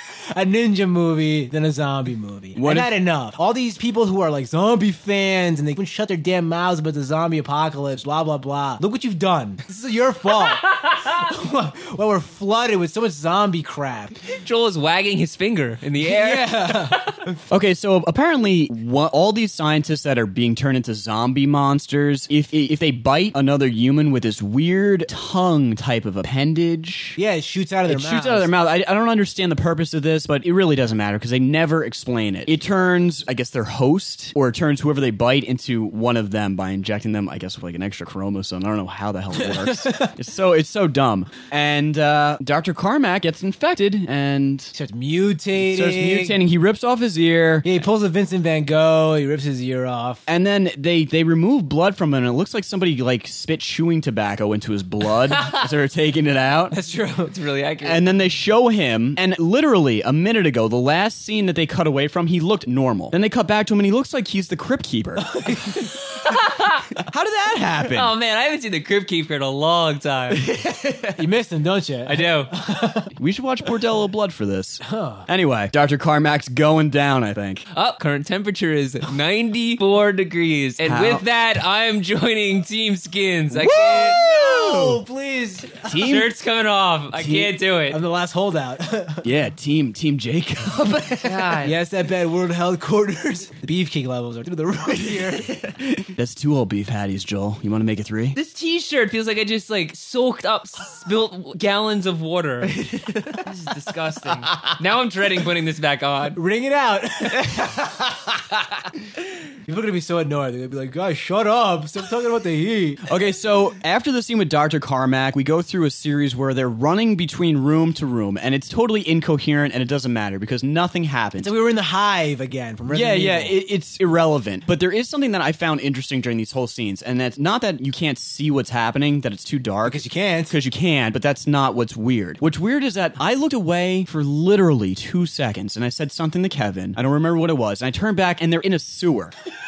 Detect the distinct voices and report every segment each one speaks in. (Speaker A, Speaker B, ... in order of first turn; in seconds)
Speaker A: 0.3-14.2, 16.0-17.4, 27.2-28.5, 39.4-40.1, 44.7-46.4, 47.6-50.2, 56.7-57.3, 65.2-66.1, 70.5-73.1, 74.8-75.2, 83.6-86.0, 87.1-89.2, 91.6-95.7, 102.7-103.5, 106.3-108.7, 109.7-113.1, 121.4-123.5, 129.8-130.5
Speaker B: 2.5-2.9, 17.5-27.2, 27.9-44.7, 45.5-47.7, 50.3-56.7, 57.8-65.3, 67.0-68.1, 73.2-77.6, 80.8-81.2, 83.5-85.0, 85.8-86.3, 89.2-91.5, 95.0-98.3, 113.0-121.5, 122.9-139.3
Speaker C: 10.4-11.1, 14.3-17.2, 55.3-55.6, 57.3-58.0, 66.2-66.9, 67.9-70.6, 72.0-72.5, 77.7-84.3, 85.9-88.0, 91.2-91.7, 98.3-102.8, 103.3-106.4